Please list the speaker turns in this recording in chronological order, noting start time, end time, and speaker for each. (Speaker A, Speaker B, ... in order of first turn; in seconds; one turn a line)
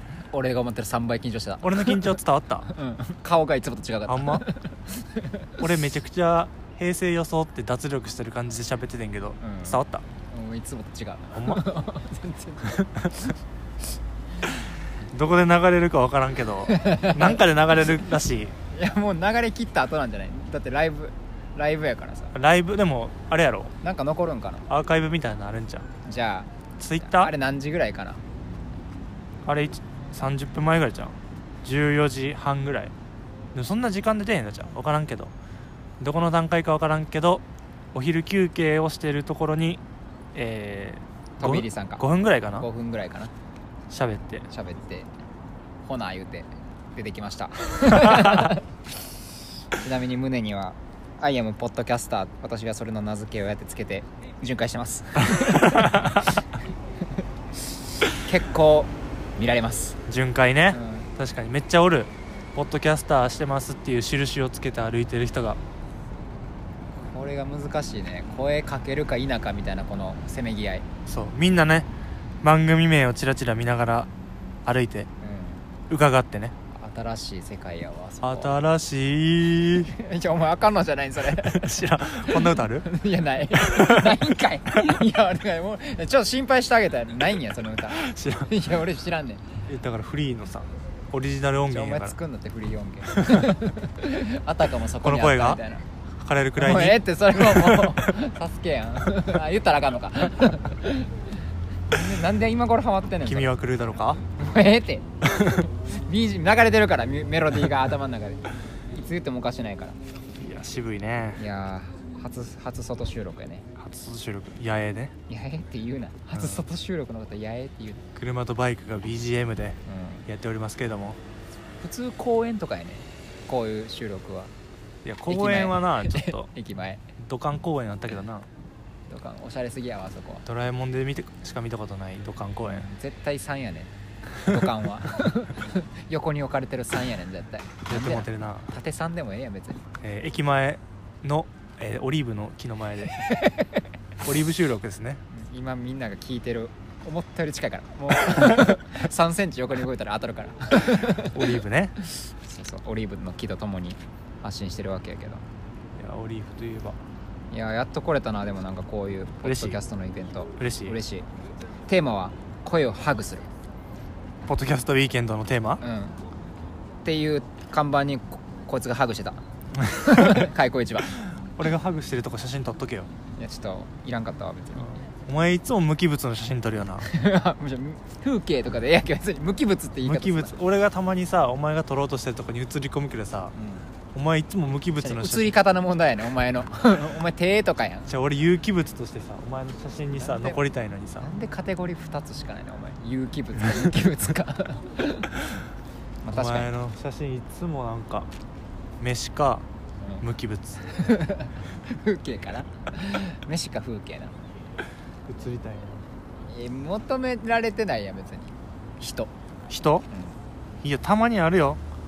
Speaker A: 0.3-5.5
Speaker B: 1.6-2.7
Speaker B: 4.1-4.5
Speaker B: 5.6-10.0
Speaker A: 9.4-13.3
Speaker B: 11.3-11.6
Speaker B: 12.8-13.1
Speaker B: 15.1-18.5
Speaker A: 16.7-17.4
Speaker A: 18.7-22.3
Speaker B: 22.3-23.7
Speaker A: 23.8-24.7
Speaker B: 24.7-25.9
Speaker A: 26.0-26.5
Speaker B: 26.8-27.3
Speaker A: 27.0-28.2
Speaker B: 29.4-32.9
Speaker B: 33.5-35.3
Speaker B: 36.0-37.4
Speaker B: 37.9-39.8
Speaker B: 40.3-42.7
Speaker A: 41.4-43.3
Speaker B: 43.9-44.5
Speaker A: 44.5-45.1
Speaker A: 45.8-48.6
Speaker B: 48.1-48.5
Speaker A: 49.8-56.1
Speaker B: 55.3-56.3
Speaker A: 58.1-60.0
Speaker B: 60.1-65.6
Speaker A: 60.7-61.1
Speaker A: 67.1-70.8
Speaker B: 71.1-71.9
Speaker B: 72.4-74.1
Speaker B: 74.6-75.1
Speaker A: 75.2-75.6
Speaker B: 75.9-76.5
Speaker A: 76.7-78.6
Speaker B: 78.2-79.9
Speaker A: 79.8-81.7
Speaker B: 81.4-82.9
Speaker A: 82.3-89.5
Speaker B: 83.6-84.2
Speaker B: 87.9-88.5
Speaker B: 89.7-92.2
Speaker A: 91.7-95.9
Speaker B: 93.1-93.5
Speaker B: 95.0-95.6
Speaker B: 96.2-98.1
Speaker A: 96.5-101.1
Speaker A: 101.9-103.5
Speaker B: 103.2-104.2
Speaker A: 104.4-110.0
Speaker B: 110.3-111.4
Speaker A: 111.4-113.7
Speaker B: 113.8-115.1
Speaker A: 115.3-118.0
Speaker B: 116.3-116.6
Speaker B: 118.1-121.2
Speaker A: 119.8-120.2
Speaker A: 121.8-124.5
Speaker B: 125.0-126.5
Speaker A: 125.3-127.0
Speaker B: 127.2-128.5
Speaker A: 129.1-130.4
Speaker B: 130.4-132.9
Speaker A: 132.7-133.9
Speaker A: 134.4-139.8
Speaker B: 137.9-138.7
Speaker B: 140.0-143.3
Speaker A: 143.2-143.7
Speaker B: 144.2-145.2
Speaker A: 145.3-151.4
Speaker B: 151.1-151.9
Speaker A: 152.3-155.4
Speaker B: 156.0-157.0
Speaker A: 157.5-161.2
Speaker B: 159.4-159.8
Speaker B: 160.6-161.0
Speaker A: 161.9-163.5
Speaker B: 164.4-165.8
Speaker A: 165.8-166.2
Speaker A: 167.0-169.4
Speaker B: 169.8-170.5
Speaker A: 169.9-171.1
Speaker B: 171.1-173.1
Speaker A: 173.4-174.9
Speaker B: 174.8-177.1
Speaker A: 177.0-180.6
Speaker B: 180.0-183.5
Speaker A: 183.5-183.9
Speaker B: 184.1-185.5
Speaker A: 185.0-188.1
Speaker B: 188.1-191.3
Speaker A: 190.2-190.6
Speaker A: 191.2-195.3
Speaker A: 196.2-196.7
Speaker B: 196.3-198.3
Speaker B: 199.0-199.6
Speaker B: 200.2-200.8
Speaker A: 200.8-204.3
Speaker B: 205.3-206.1
Speaker A: 206.5-209.3
Speaker B: 209.7-210.1
Speaker A: 210.1-210.4
Speaker B: 210.8-211.8